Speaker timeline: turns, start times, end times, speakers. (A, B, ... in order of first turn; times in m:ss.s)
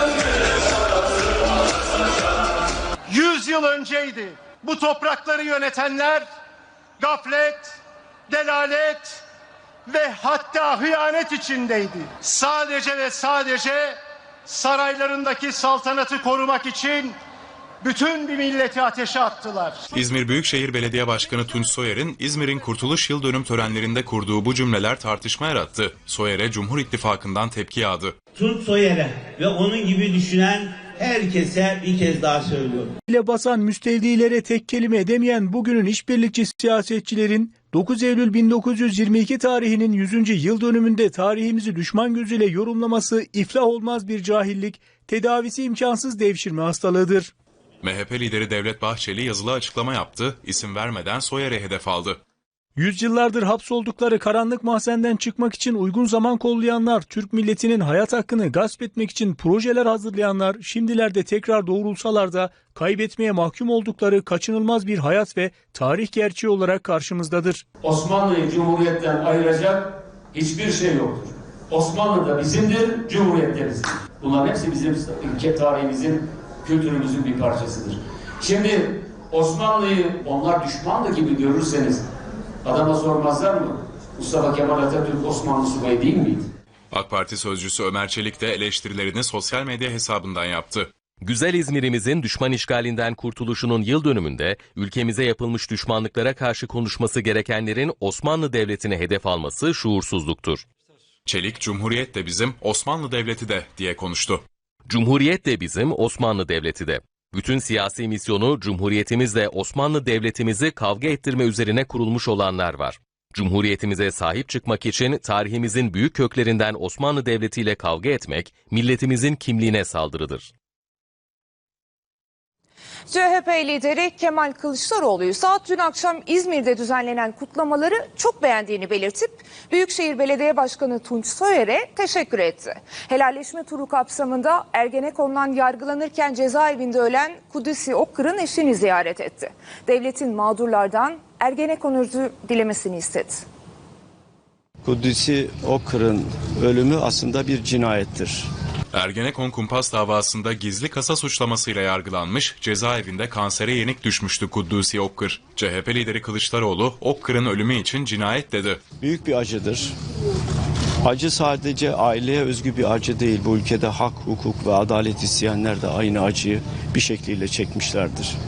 0:03.1-0:06.3 A
0:07.0-0:07.8 A
0:08.3-0:09.2 A
0:09.9-0:17.2 A
0:17.8-0:19.8 A
0:19.9-0:28.1 B
0:28.4-0:32.9 C
0:33.1-0:47.3 D
0:47.8-0:52.2 B
0:52.8-1:07.6 D
1:07.8-1:18.8 E
1:19.3-1:22.0 E
1:22.6-1:26.4 E
1:26.9-1:30.9 B
1:31.2-1:40.6 F
1:41.3-1:44.4 B
1:44.9-2:00.5 F
2:03.1-2:23.4 G
2:24.8-2:28.5 H
2:28.9-2:38.8 B
2:39.0-2:39.9 H
2:41.0-2:48.4 H